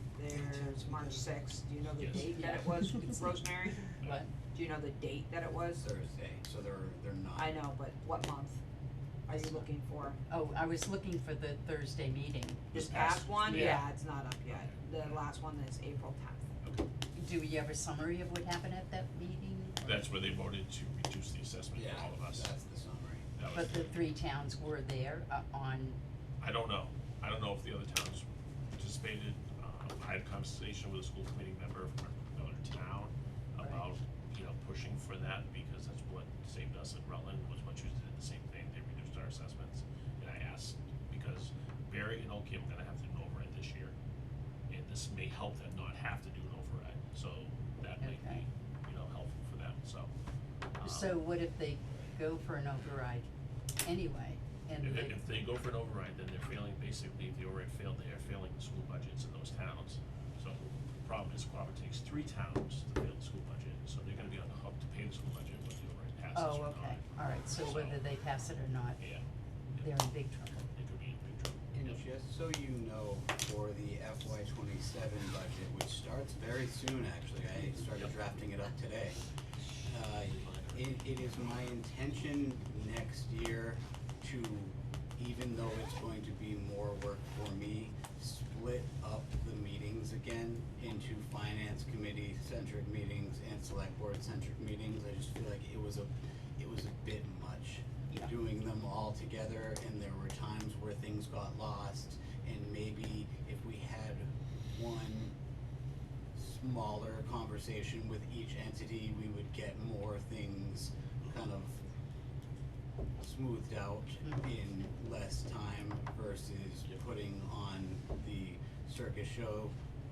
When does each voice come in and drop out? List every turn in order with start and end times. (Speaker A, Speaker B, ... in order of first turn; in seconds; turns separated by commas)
Speaker A: 0.1-5.9, Speaker B: 2.0-2.4, Speaker C: 2.3-3.1, Speaker C: 4.0-4.3, Speaker D: 5.8-7.7, Speaker A: 7.3-8.6, Speaker A: 9.3-10.2, Speaker C: 9.4-9.7, Speaker C: 10.3-12.8, Speaker A: 12.7-16.5, Speaker B: 12.7-13.9, Speaker C: 13.5-13.8, Speaker B: 14.5-15.2, Speaker C: 17.1-20.1, Speaker B: 19.8-22.5, Speaker D: 21.7-23.3, Speaker B: 23.4-24.0, Speaker C: 23.5-26.0, Speaker B: 26.4-28.2, Speaker B: 28.8-43.9, Speaker C: 33.6-33.9, Speaker B: 44.7-50.1, Speaker C: 48.0-48.4, Speaker B: 50.8-51.2, Speaker C: 50.8-53.3, Speaker C: 53.8-55.2, Speaker B: 54.8-68.1, Speaker C: 66.3-69.0, Speaker B: 69.0-70.0, Speaker C: 69.8-70.7, Speaker B: 70.8-72.0, Speaker D: 71.7-79.2, Speaker D: 79.8-105.3, Speaker B: 80.1-80.9, Speaker D: 106.3-111.8, Speaker D: 113.2-119.7